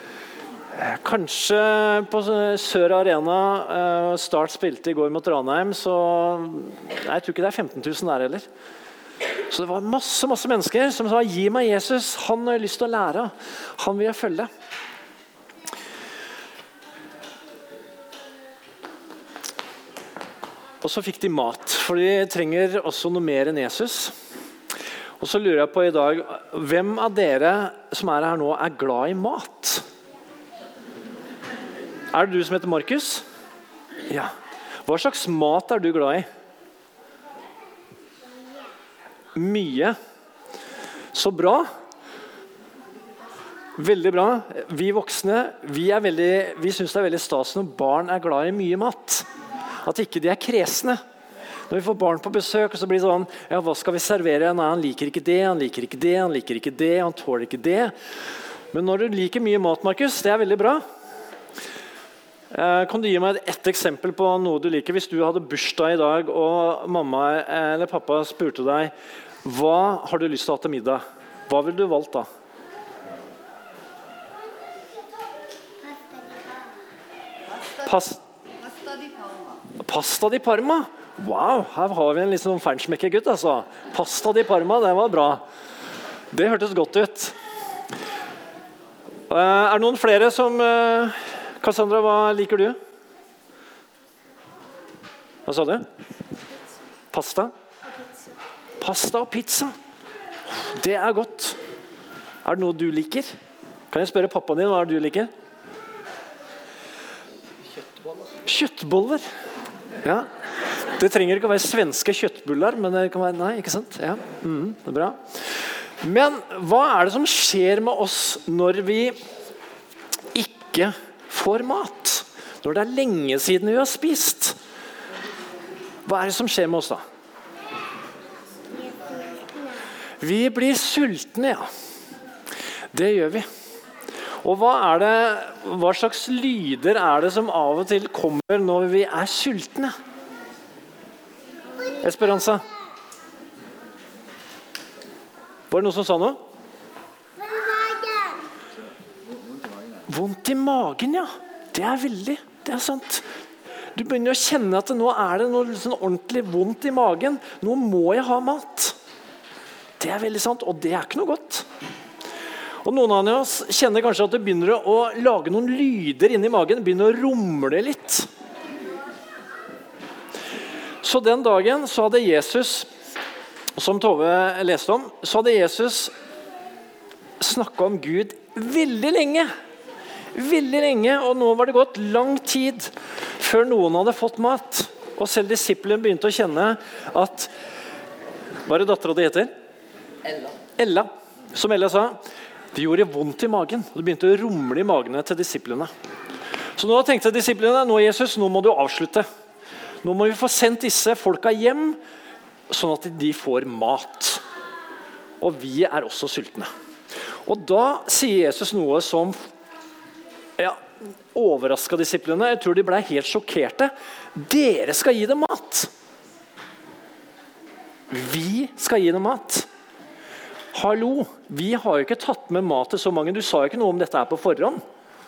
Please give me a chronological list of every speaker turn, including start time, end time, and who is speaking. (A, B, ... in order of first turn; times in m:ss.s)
0:00.7-0:08.4 A
0:09.5-0:14.5 A
0:20.8-0:24.1 A
0:25.2-0:29.8 A
0:32.1-0:33.2 A
0:34.8-0:36.3 A
0:39.3-0:39.9 A
0:41.1-0:41.6 A
0:43.8-0:49.2 A
0:49.8-0:51.0 A
0:51.7-0:57.9 A
0:58.7-1:00.8 A
1:02.5-1:08.9 A
1:09.4-1:12.3 A
1:17.8-1:18.2 A
1:19.7-1:25.4 A
1:26.3-1:27.4 A
1:29.3-1:32.8 A
1:35.4-1:35.8 A
1:37.1-1:37.5 A
1:38.8-1:39.7 A
1:40.5-1:41.6 A
1:42.4-1:43.3 A
1:43.9-1:45.3 A
1:48.4-1:49.2 A
1:50.0-1:55.2 A
1:56.0-1:59.1 A
2:00.3-2:04.6 A
2:06.0-2:07.0 A
2:10.2-2:11.6 A
2:12.9-2:13.4 A
2:14.4-2:19.9 A
2:22.0-2:22.6 A
2:25.7-2:26.4 A
2:30.1-2:33.2 A
2:33.9-2:39.0 A
2:40.0-2:41.6 A
2:42.8-2:48.3 A
2:51.0-2:52.9 A
2:53.8-2:56.1 A
2:57.4-2:59.5 A
3:00.3-3:07.5 A
3:08.6-3:09.5 A
3:10.8-3:12.2 A
3:12.7-3:15.9 A
3:16.8-3:19.2 A
3:20.0-3:22.0 A
3:22.7-3:24.4 A
3:25.4-3:26.7 A
3:27.4-3:29.4 A
3:31.3-3:35.9 A
3:38.1-3:39.7 A
3:40.7-3:44.8 A